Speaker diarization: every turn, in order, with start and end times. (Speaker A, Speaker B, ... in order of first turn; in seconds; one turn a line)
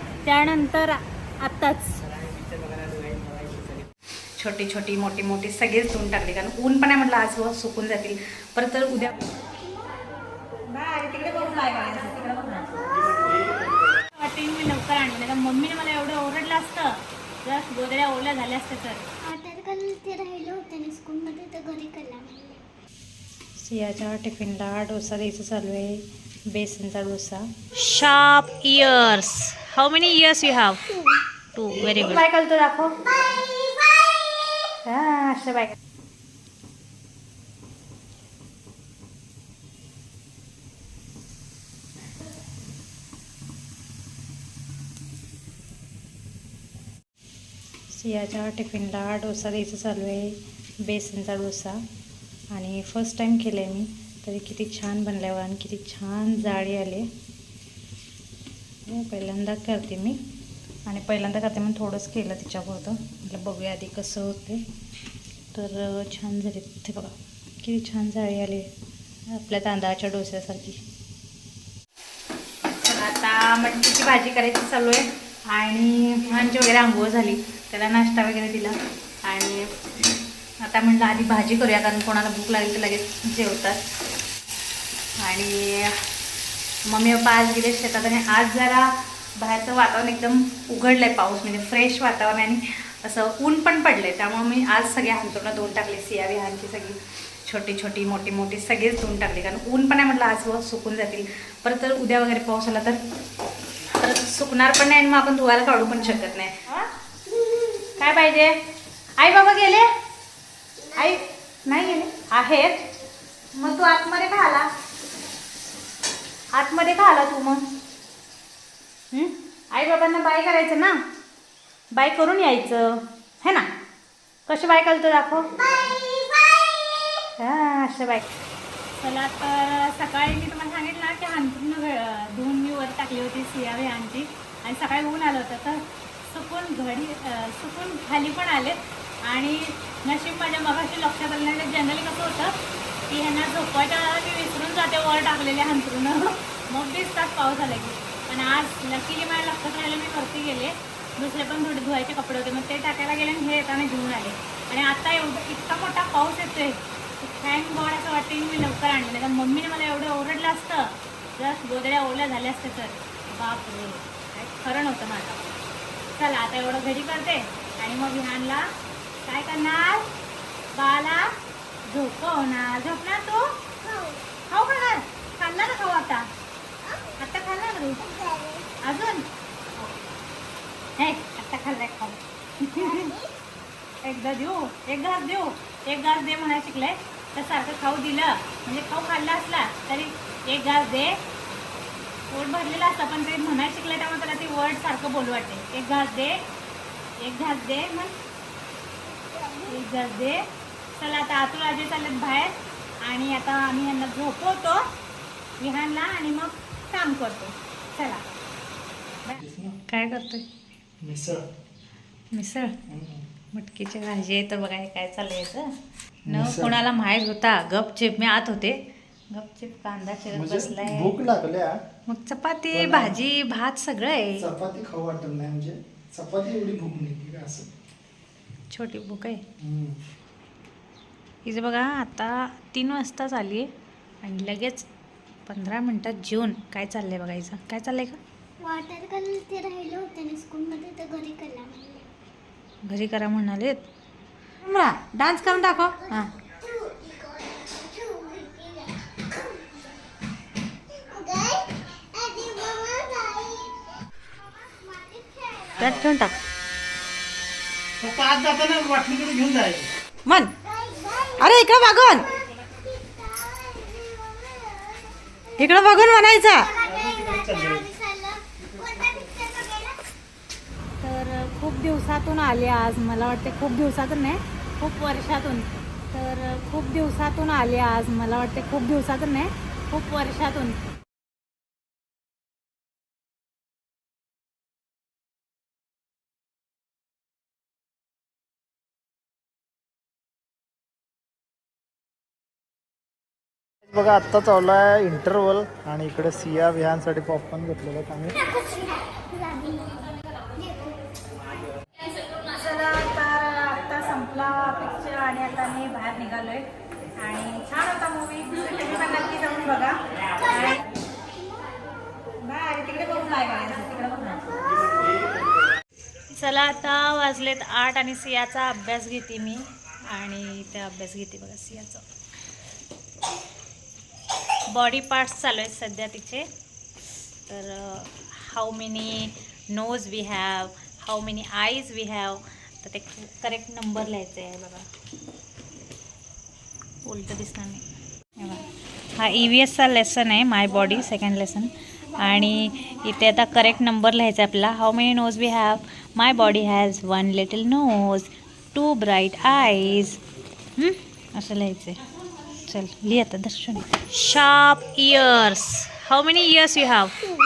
Speaker A: 0.2-2.0
Speaker A: 4.4-9.2
Speaker A: 10.7-12.8
Speaker A: 14.0-19.1
Speaker B: 19.2-22.6
Speaker A: 23.6-30.9
Speaker A: 31.5-33.0
Speaker A: 34.8-35.7
Speaker A: 47.9-51.8
Speaker A: 52.5-57.1
Speaker A: 58.9-60.2
Speaker A: 60.9-64.6
Speaker A: 65.5-68.7
Speaker A: 69.3-70.8
Speaker A: 72.6-79.7
Speaker A: 80.6-83.8
Speaker A: 85.2-86.0
Speaker A: 86.8-103.0
Speaker A: 103.8-106.9
Speaker A: 108.0-108.5
Speaker A: 109.2-109.9
Speaker A: 110.9-112.9
Speaker A: 113.5-114.7
Speaker A: 116.5-117.7
Speaker A: 119.1-121.0
Speaker A: 121.9-123.7
Speaker A: 124.5-125.5
Speaker A: 127.4-128.2
Speaker A: 128.9-142.6
Speaker A: 143.1-165.5
Speaker A: 166.1-168.7
Speaker A: 169.2-170.1
Speaker A: 170.7-171.3
Speaker A: 171.9-173.6
Speaker B: 173.8-174.2
Speaker A: 174.5-176.3
Speaker A: 177.2-178.1
Speaker B: 178.0-178.7
Speaker A: 178.8-179.2
Speaker A: 181.0-183.1
Speaker B: 182.8-183.3
Speaker A: 184.0-191.2
Speaker A: 192.3-196.4
Speaker A: 197.2-198.1
Speaker B: 199.1-199.7
Speaker A: 199.7-204.9
Speaker A: 205.6-208.2
Speaker A: 209.2-210.4
Speaker C: 209.4-209.8
Speaker C: 211.0-211.4
Speaker A: 212.3-212.8
Speaker C: 212.9-213.2
Speaker A: 213.5-215.7
Speaker A: 216.2-218.8
Speaker C: 216.3-216.8
Speaker A: 219.3-221.2
Speaker C: 220.3-221.8
Speaker A: 222.1-224.5
Speaker C: 222.7-223.2
Speaker C: 224.4-227.7
Speaker A: 228.7-229.4
Speaker C: 229.6-230.0
Speaker A: 231.4-233.7
Speaker A: 234.2-234.8
Speaker A: 235.4-238.2
Speaker B: 238.6-242.1
Speaker A: 242.8-243.8
Speaker A: 244.6-246.3
Speaker B: 245.9-249.6
Speaker B: 251.0-253.9
Speaker B: 254.6-255.9
Speaker A: 255.7-256.4
Speaker C: 258.0-259.9
Speaker A: 260.2-260.5
Speaker B: 260.6-261.5
Speaker A: 261.4-262.3
Speaker B: 262.5-265.9
Speaker A: 265.6-266.7
Speaker B: 266.5-270.0
Speaker A: 271.0-280.8
Speaker C: 293.9-298.4
Speaker B: 298.4-301.0
Speaker A: 302.4-306.6
Speaker A: 307.2-310.8
Speaker A: 312.4-314.4
Speaker A: 316.3-322.0
Speaker A: 324.7-326.4
Speaker A: 327.4-334.9
Speaker A: 337.0-337.8
Speaker A: 338.4-350.2
Speaker A: 350.8-357.3